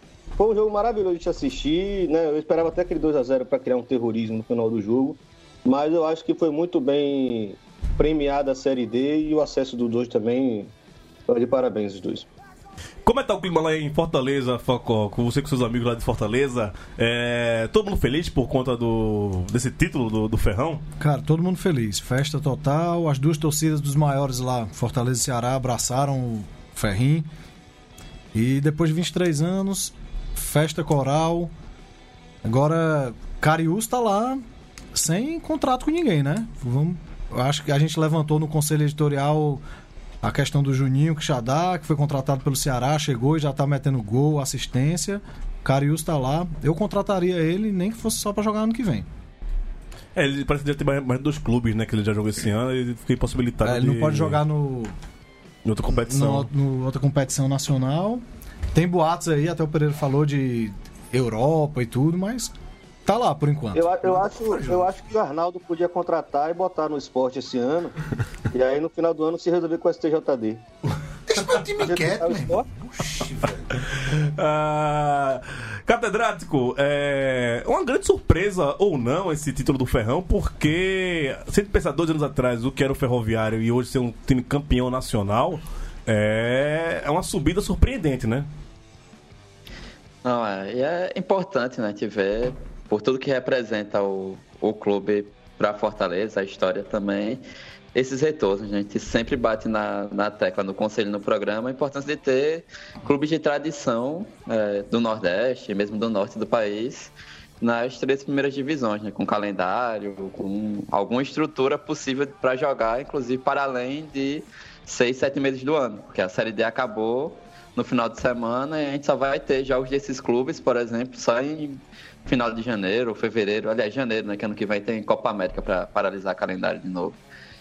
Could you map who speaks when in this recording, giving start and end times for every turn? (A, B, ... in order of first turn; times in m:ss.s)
0:00.4-0:10.7 A
0:11.3-0:12.3 A
0:13.1-0:20.8 B
0:21.0-0:27.3 C
0:28.3-0:31.5 C
0:32.4-0:34.4 C
0:34.9-0:39.6 C
0:40.2-0:49.1 C
0:50.2-0:54.4 B
0:53.6-0:54.9 C
0:55.6-0:56.5 B
0:56.0-0:58.2 C
0:58.7-1:02.5 C
1:03.1-1:03.9 C
1:03.7-1:07.9 A
1:04.0-1:04.9 D
1:08.5-1:10.6 A
1:11.3-1:13.8 D
1:11.8-1:12.7 A
1:13.8-1:28.5 B
1:30.2-1:37.4 E
1:37.9-2:07.2 E